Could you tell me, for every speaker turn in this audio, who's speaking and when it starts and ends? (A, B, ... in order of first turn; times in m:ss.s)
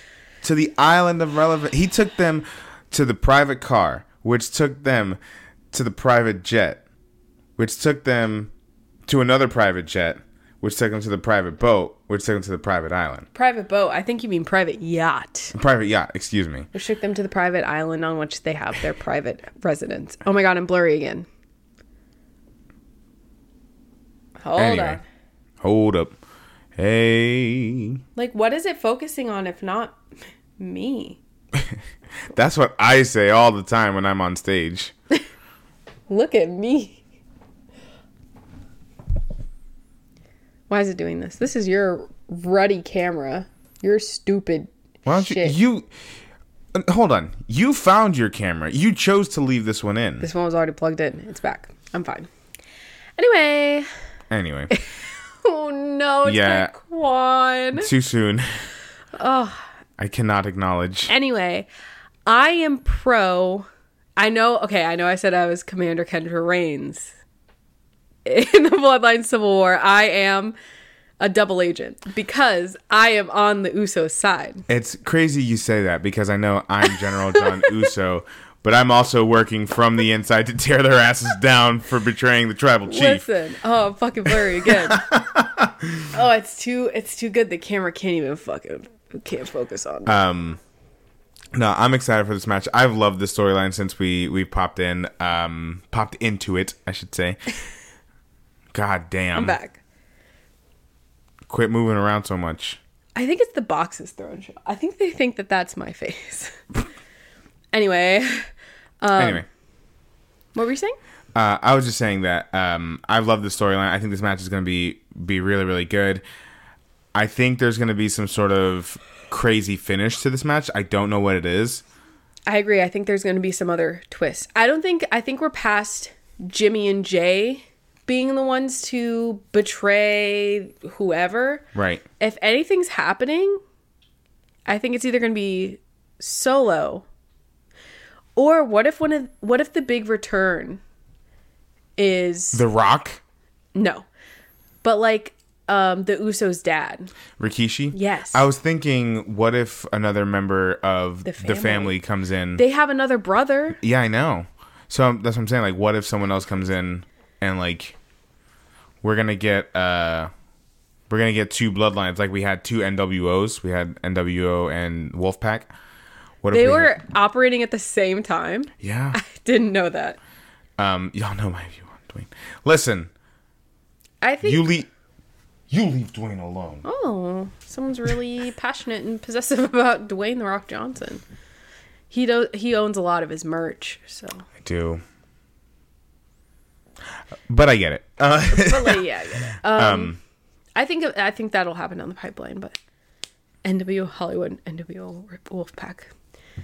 0:00.4-0:05.2 A
0:05.7-0:06.8 A
0:07.6-0:08.5 A
0:09.1-0:13.3 A
0:13.3-0:15.6 B
0:15.5-0:16.7 A
0:16.7-0:21.3 B
0:24.4-0:25.0 B
0:24.6-0:25.0 A
0:25.6-0:26.2 A
0:26.8-0:28.0 A
0:28.2-0:30.0 B
0:30.6-0:31.2 B
0:32.3-0:34.9 A
0:36.1-0:37.0 B
0:40.7-0:45.6 B
0:45.1-0:45.9 A
0:46.7-0:50.3 A
0:50.2-0:52.3 B
0:53.2-0:53.9 B
0:54.3-0:54.7 A
0:54.7-0:57.9 B
0:56.2-0:56.7 A
0:57.8-0:58.5 A
0:59.2-0:59.6 B
1:00.0-1:01.1 A
1:01.1-1:01.7 B
1:02.3-1:07.1 B
1:08.2-1:10.6 B
1:11.2-1:14.6 B
1:14.7-1:23.2 A
1:17.1-1:17.7 B
1:22.9-1:25.0 B
1:24.3-1:26.1 A
1:26.1-1:30.2 B
1:30.1-1:30.6 A
1:31.5-1:37.4 A
1:38.7-1:39.6 A
1:39.4-1:39.8 B
1:41.5-1:42.8 A
1:43.2-1:46.6 B
1:47.7-1:48.5 B
1:49.0-1:49.4 B
1:49.2-1:49.5 A
1:50.6-1:51.0 B
1:51.4-1:56.2 A
1:57.1-2:01.8 A
2:02.5-2:11.7 B
2:11.8-2:12.0 A
2:12.2-2:13.6 B
2:14.7-2:17.1 B
2:18.4-2:20.8 B
2:22.0-2:22.6 B
2:22.5-2:23.2 A
2:23.8-2:24.1 B
2:24.8-2:27.1 B
2:27.4-2:32.6 A
2:27.9-2:28.5 B
2:31.2-2:32.0 B
2:32.6-2:33.8 B
2:33.8-2:38.0 A
2:39.0-2:40.3 A
2:41.1-2:45.7 A
2:46.4-2:46.9 A
2:46.5-2:50.2 B
2:48.8-2:49.2 A
2:50.8-2:53.1 A
2:54.2-2:54.7 B
2:54.4-2:54.9 A
2:55.7-2:56.8 A
2:56.8-3:01.2 B
3:02.1-3:04.5 B
3:04.6-3:05.0 A
3:07.5-3:10.2 A
3:08.5-3:10.2 B
3:10.8-3:12.8 B
3:13.6-3:16.1 B